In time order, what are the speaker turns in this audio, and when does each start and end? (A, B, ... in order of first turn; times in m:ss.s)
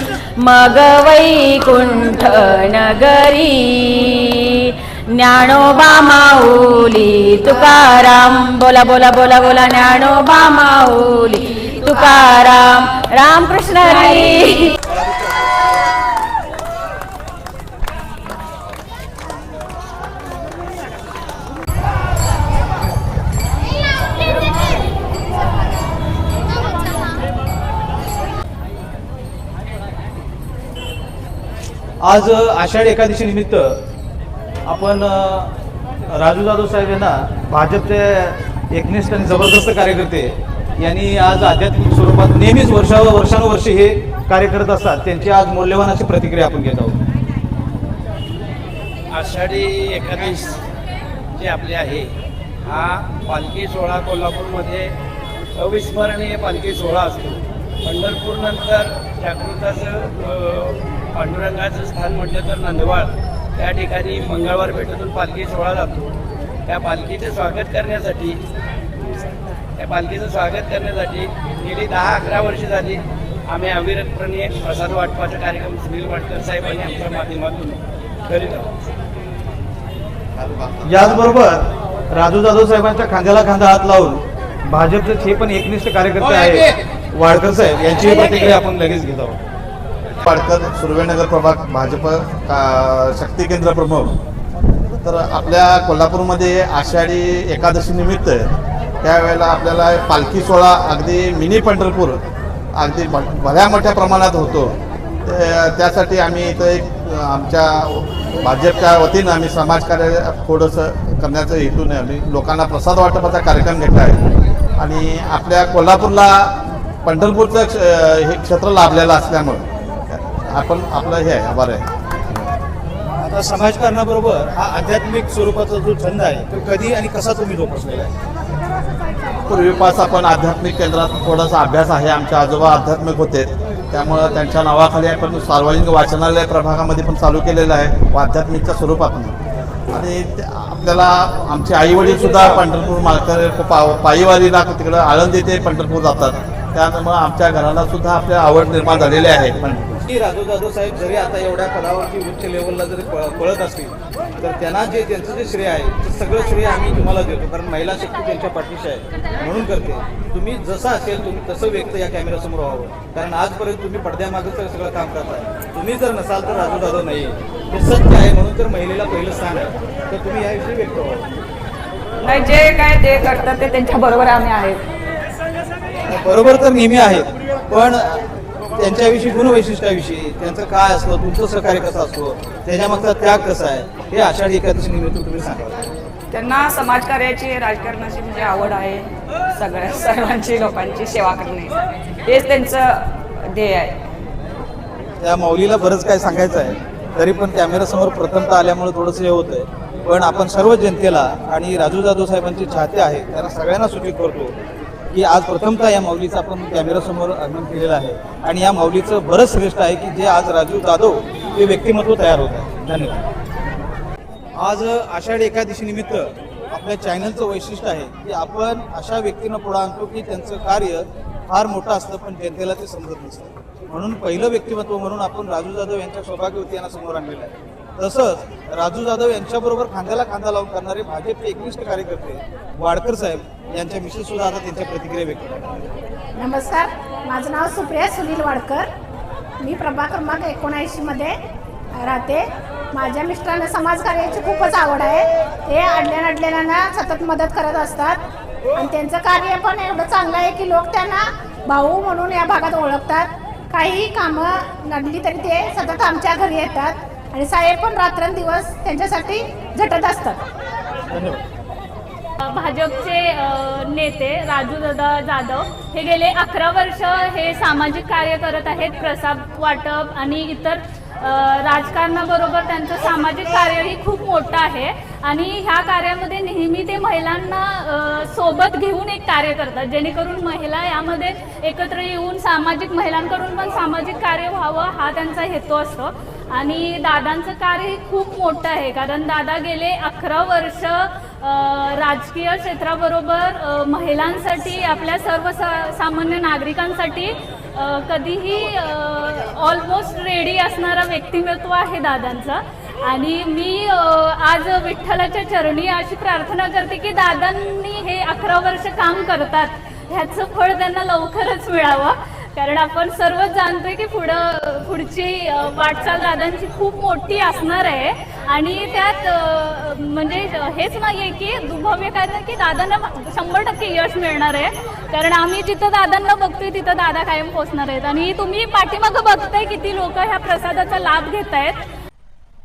0:00.4-0:04.6 A
0:05.1-0:14.6 A
0:32.0-0:33.8 B
0:34.6-0:35.5 B
0:36.1-0:47.0 B
0:49.1-0:50.6 C
0:51.4-0:52.1 C
0:52.6-0:55.0 C
0:55.6-1:06.1 C
1:06.7-1:08.4 C
1:09.8-1:18.9 C
1:20.4-1:21.2 D
1:20.8-1:29.4 B
1:30.2-1:34.1 D
1:35.0-1:38.5 D
1:39.0-1:42.2 D
1:42.8-1:54.2 D
1:54.8-2:02.5 D
2:03.2-2:08.1 B
2:09.5-2:19.4 D
2:19.9-2:30.0 D
2:30.1-2:51.2 B
2:52.2-2:54.8 E
2:56.1-2:58.2 B
2:58.8-3:05.9 B
3:06.3-3:14.0 E
3:15.2-3:24.6 B
3:25.1-3:33.2 B
3:34.6-3:55.6 B
3:56.4-3:58.9 F
3:59.6-4:01.4 F
4:02.0-4:08.2 F
4:08.8-4:20.4 F
4:21.1-4:21.4 B
4:22.4-5:31.8 G